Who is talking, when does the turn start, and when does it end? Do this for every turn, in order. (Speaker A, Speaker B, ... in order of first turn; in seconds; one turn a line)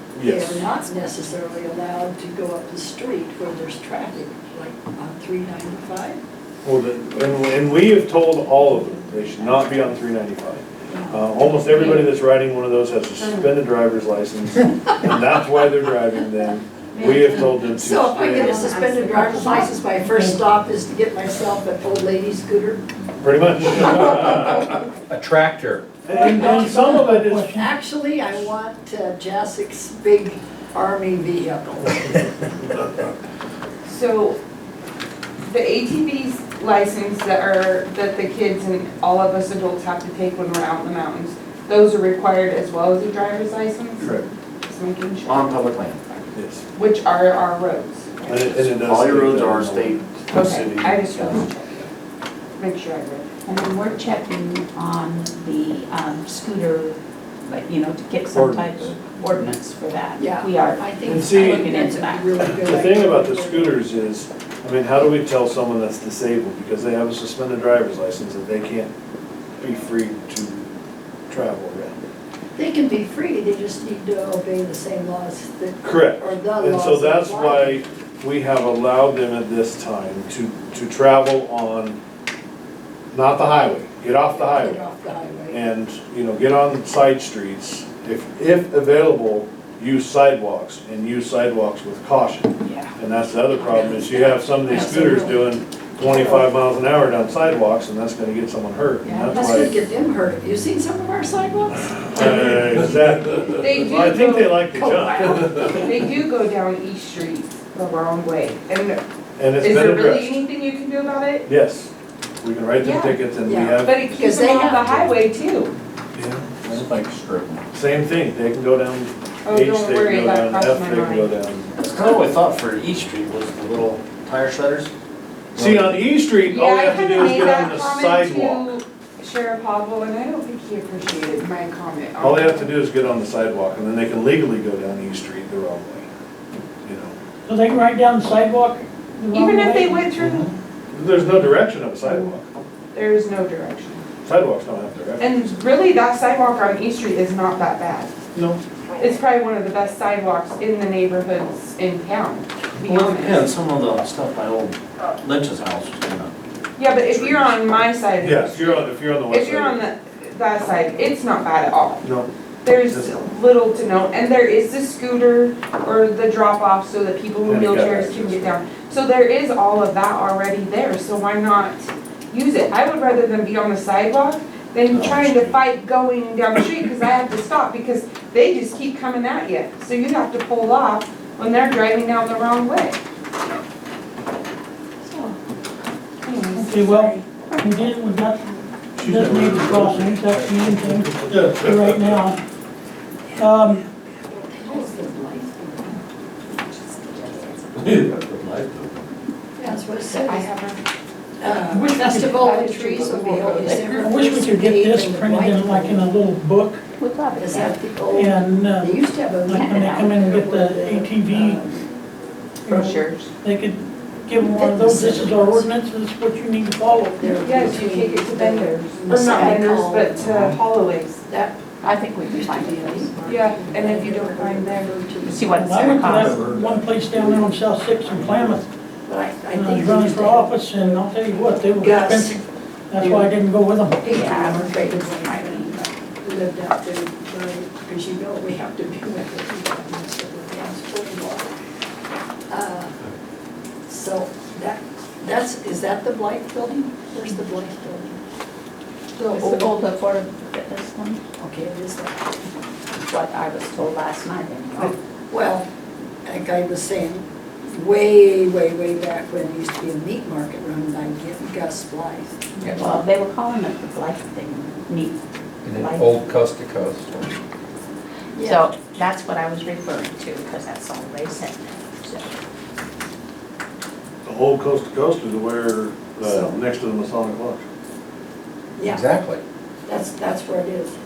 Speaker A: 0.1-0.7
Speaker B: 0.2-6.2
Speaker A: 6.6-18.6
Speaker B: 10.9-11.3
Speaker C: 11.7-12.1
Speaker C: 13.2-13.5
Speaker D: 16.9-19.9
Speaker B: 17.8-22.8
Speaker E: 20.1-20.4
Speaker A: 23.2-24.8
Speaker F: 25.1-25.9
Speaker A: 26.1-27.5
Speaker E: 26.1-27.7
Speaker B: 26.2-27.0
Speaker B: 27.5-32.2
Speaker C: 33.9-34.4
Speaker C: 35.5-45.7
Speaker A: 44.0-44.3
Speaker G: 45.2-46.1
Speaker A: 46.3-46.6
Speaker C: 46.8-48.4
Speaker A: 48.2-49.9
Speaker G: 48.4-51.4
Speaker C: 50.3-51.9
Speaker C: 52.6-53.3
Speaker D: 53.5-62.4
Speaker A: 58.3-58.9
Speaker B: 60.2-63.8
Speaker A: 61.0-61.7
Speaker A: 62.5-68.9
Speaker A: 69.6-70.7
Speaker A: 71.3-72.0
Speaker B: 72.6-77.8
Speaker A: 75.8-82.0
Speaker A: 83.1-84.8
Speaker B: 84.3-85.6
Speaker A: 85.5-99.8
Speaker D: 92.6-93.0
Speaker D: 93.7-94.1
Speaker B: 93.9-96.5
Speaker B: 99.0-103.6
Speaker A: 102.1-105.5
Speaker C: 103.6-104.6
Speaker B: 104.7-105.9
Speaker C: 105.5-109.0
Speaker A: 109.4-110.4
Speaker C: 109.6-111.5
Speaker A: 111.5-114.0
Speaker C: 112.8-113.2
Speaker B: 113.5-115.1
Speaker C: 113.8-115.7
Speaker A: 116.2-116.9
Speaker G: 116.6-117.6
Speaker A: 117.7-121.7
Speaker C: 119.5-121.3
Speaker G: 121.8-124.9
Speaker G: 125.5-126.0
Speaker A: 125.6-128.7
Speaker C: 126.5-132.7
Speaker A: 132.2-136.1
Speaker A: 136.8-137.2
Speaker E: 137.5-140.2
Speaker C: 139.3-140.5
Speaker A: 140.9-142.5
Speaker C: 142.9-144.0
Speaker A: 144.2-145.5
Speaker C: 145.2-148.1
Speaker A: 148.3-148.6
Speaker C: 149.0-153.5
Speaker G: 152.9-156.3
Speaker C: 156.8-162.1
Speaker G: 156.9-157.6
Speaker A: 158.2-159.8
Speaker A: 162.0-162.3
Speaker C: 162.6-183.0
Speaker A: 162.9-163.2
Speaker A: 167.4-168.6
Speaker G: 174.9-175.6
Speaker D: 185.1-185.4
Speaker C: 186.2-187.2
Speaker E: 186.6-192.4
Speaker A: 189.0-191.8
Speaker G: 191.4-191.7
Speaker E: 193.4-193.9
Speaker B: 194.3-197.6
Speaker G: 197.8-199.1
Speaker B: 199.6-200.5
Speaker C: 200.1-200.8
Speaker B: 201.4-206.1
Speaker E: 201.7-202.4
Speaker C: 202.3-204.1
Speaker E: 204.0-206.8
Speaker D: 206.9-207.8
Speaker B: 207.4-211.9
Speaker E: 208.1-211.6
Speaker D: 209.5-210.1
Speaker C: 212.7-213.3
Speaker E: 212.7-217.4
Speaker B: 214.4-215.8
Speaker B: 217.1-220.6
Speaker C: 217.4-221.2
Speaker D: 219.1-219.8
Speaker B: 221.3-226.4
Speaker D: 221.8-223.3
Speaker C: 223.3-224.9
Speaker D: 225.2-226.3
Speaker E: 225.6-228.7
Speaker B: 229.1-231.1
Speaker E: 229.5-234.2
Speaker B: 231.7-232.4
Speaker B: 232.9-233.3
Speaker B: 234.0-241.5
Speaker D: 234.1-235.9
Speaker B: 242.5-242.9
Speaker B: 243.9-248.2
Speaker B: 249.2-249.8
Speaker D: 249.3-251.2
Speaker B: 251.4-252.3
Speaker D: 253.0-254.9
Speaker B: 255.3-255.7
Speaker B: 256.2-262.4
Speaker C: 262.6-262.9
Speaker D: 262.7-266.4
Speaker F: 265.6-267.1
Speaker B: 268.4-268.7
Speaker D: 268.4-272.3
Speaker A: 274.2-277.6
Speaker B: 278.8-279.1
Speaker F: 278.9-279.4
Speaker B: 279.9-281.0